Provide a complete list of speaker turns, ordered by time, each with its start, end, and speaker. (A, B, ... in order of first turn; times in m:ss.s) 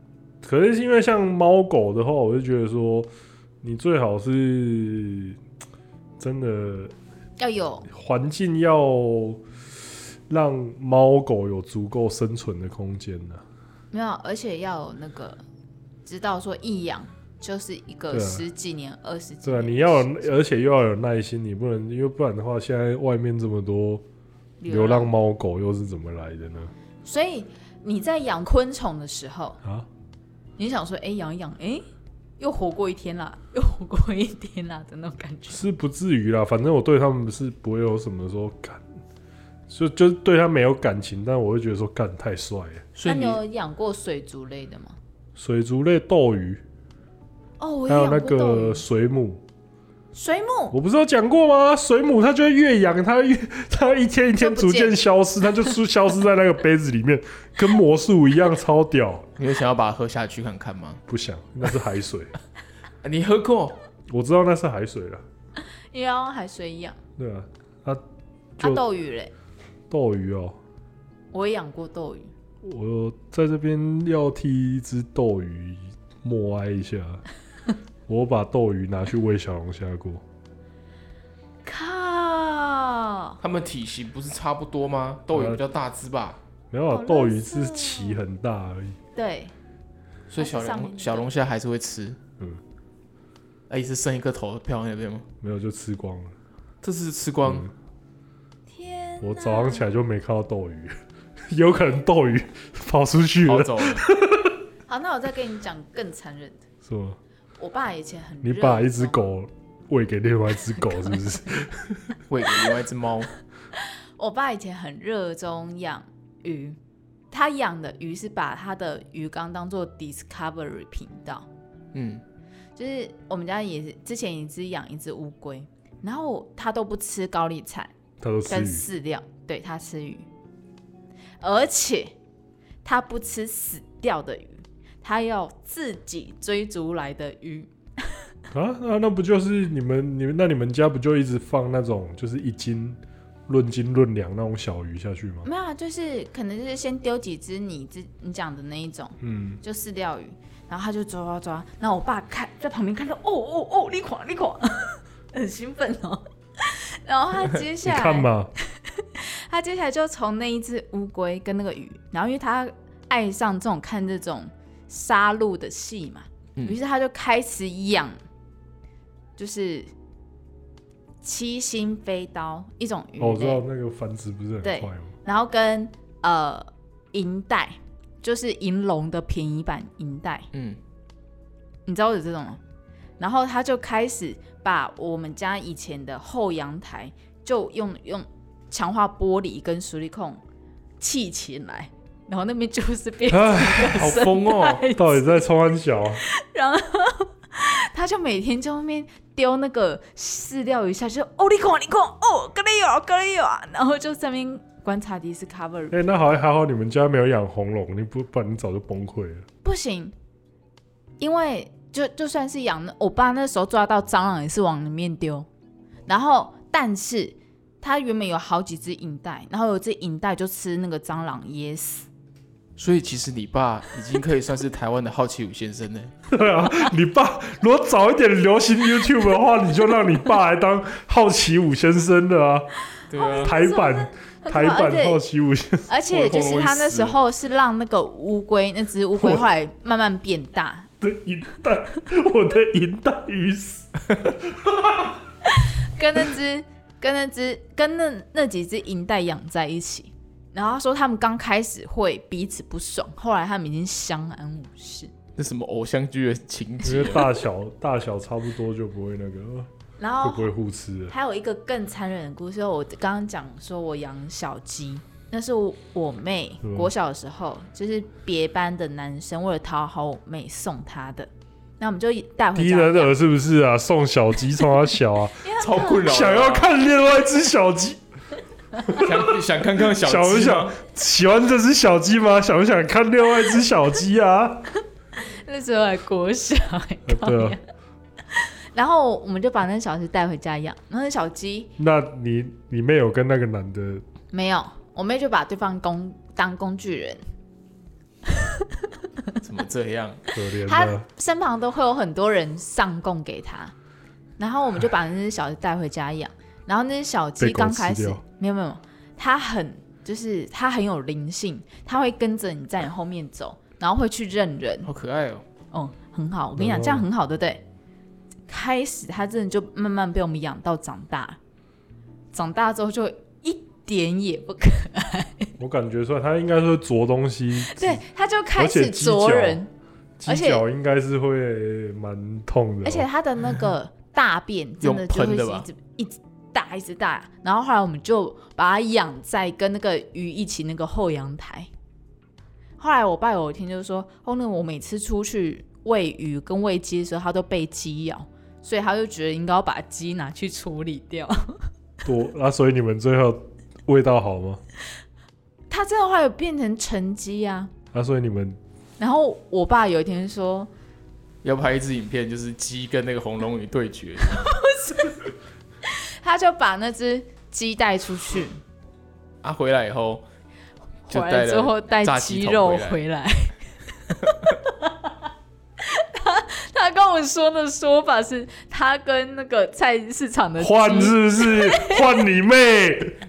0:00.4-0:03.1 A
0:03.6-0:05.4 A
0:06.2-0:06.9 A
0:07.4-0:07.9 B
0:07.9-0:09.4 A
0:10.3-0:13.4 A
0:13.9-0:15.4 B
0:16.0-0:20.4 B
0:18.1-0:18.4 A
0:19.4-0:24.0 A
0:24.6-0:25.1 B
0:24.7-0:26.7 A
0:27.0-0:29.6 B
0:30.6-0:31.8 B
0:32.4-0:35.6 B
0:35.5-0:38.8 A
0:39.7-0:42.9 A
0:43.0-0:43.4 C
0:43.0-0:45.0 B
0:45.4-0:46.6 A
0:47.6-0:48.8 B
0:47.9-0:49.4 A
0:50.1-0:50.8 B
0:50.7-0:59.3 A
0:54.4-0:55.0 B
0:59.4-1:01.0 C
1:01.1-1:02.3 A
1:03.0-1:03.8 C
1:04.1-1:05.2 A
1:05.9-1:07.0 B
1:07.2-1:08.0 A
1:08.6-1:09.3 B
1:09.9-1:10.6 A
1:11.3-1:12.3 B
1:12.6-1:17.2 A
1:18.1-1:20.2 A
1:21.6-1:23.4 B
1:23.4-1:26.4 C
1:25.3-1:25.6 A
1:26.7-1:29.0 A
1:26.9-1:28.2 B
1:29.2-1:29.5 B
1:30.3-1:32.2 C
1:30.4-1:31.3 B
1:33.7-1:35.3 C
1:35.4-1:36.3 A
1:36.8-1:37.7 C
1:37.4-1:37.7 A
1:38.7-1:39.9 B
1:39.2-1:40.9 A
1:41.5-1:44.6 A
1:43.4-1:44.0 C
1:44.9-1:46.6 B
1:46.8-1:47.2 A
1:47.6-1:49.2 B
1:48.4-1:52.2 A
1:50.9-1:51.2 B
1:52.3-1:53.3 C
1:54.2-1:56.8 B
1:57.3-2:01.5 B
2:01.9-2:02.2 C
2:02.8-2:07.9 B
2:08.2-2:08.8 A
2:08.5-2:10.3 B
2:11.4-2:12.1 B
2:12.8-2:18.2 B
2:18.5-2:25.5 A
2:25.4-2:38.3 B
2:29.2-2:29.6 A
2:37.8-2:38.5 A
2:38.8-2:48.2 B
2:49.4-2:49.9 B
2:51.2-2:53.6 B
2:53.2-2:55.1 A
2:54.6-3:00.5 B
3:00.5-3:00.8 C
3:01.9-3:02.6 B
3:03.2-3:10.4 B
3:11.0-3:15.5 B
3:13.3-3:14.2 A
3:13.8-3:14.8 C
3:14.9-3:16.2 A
3:16.2-3:26.0 B
3:25.9-3:29.4 A
3:29.6-3:30.1 B
3:31.2-3:35.5 B
3:36.1-3:42.1 B
3:42.8-3:46.1 C
3:46.3-3:52.7 A
3:53.1-3:53.5 C
3:53.1-3:55.2 B
3:53.4-3:55.9 A
3:55.9-4:00.9 B
3:56.1-3:57.2 C
3:59.2-3:59.4 A
4:01.0-4:05.2 A
4:05.4-4:15.1 B
4:15.4-4:17.4 C
4:16.8-4:19.7 A
4:20.0-4:20.5 B
4:20.2-4:21.1 A
4:21.1-4:33.1 B
4:26.6-4:26.9 A
4:32.6-4:38.0 A
4:35.4-4:36.1 B
4:35.6-4:36.7 C
4:38.8-4:44.7 A
4:38.9-4:40.8 C
4:45.2-4:47.6 B
4:47.1-4:47.6 A
4:48.3-4:51.7 B
4:51.8-4:54.0 A
4:54.3-4:57.2 B
4:58.3-4:58.9 B
4:59.4-5:00.2 C
5:00.3-5:01.1 A
5:00.7-5:03.7 B
5:04.4-5:14.9 B
5:07.4-5:08.2 A
5:14.8-5:15.4 C
5:15.7-5:17.6 B
5:16.6-5:17.1 A
5:18.5-5:21.4 B
5:22.3-5:25.5 B
5:25.6-5:28.0 A
5:27.7-5:29.7 B
5:28.6-5:29.6 A
5:30.2-5:33.1 A
5:30.3-5:30.6 B
5:32.8-5:41.7 B
5:34.8-5:35.7 C
5:42.8-5:51.7 B
5:52.0-5:54.6 A
5:55.7-5:57.7 B
5:57.9-5:58.6 A
5:59.0-6:00.7 B
6:01.4-6:04.5 C
6:04.3-6:05.3 B
6:05.8-6:08.6 B
6:09.4-6:10.2 C
6:11.1-6:15.1 B
6:11.1-6:13.0 C
6:15.8-6:22.2 B
6:20.6-6:23.2 A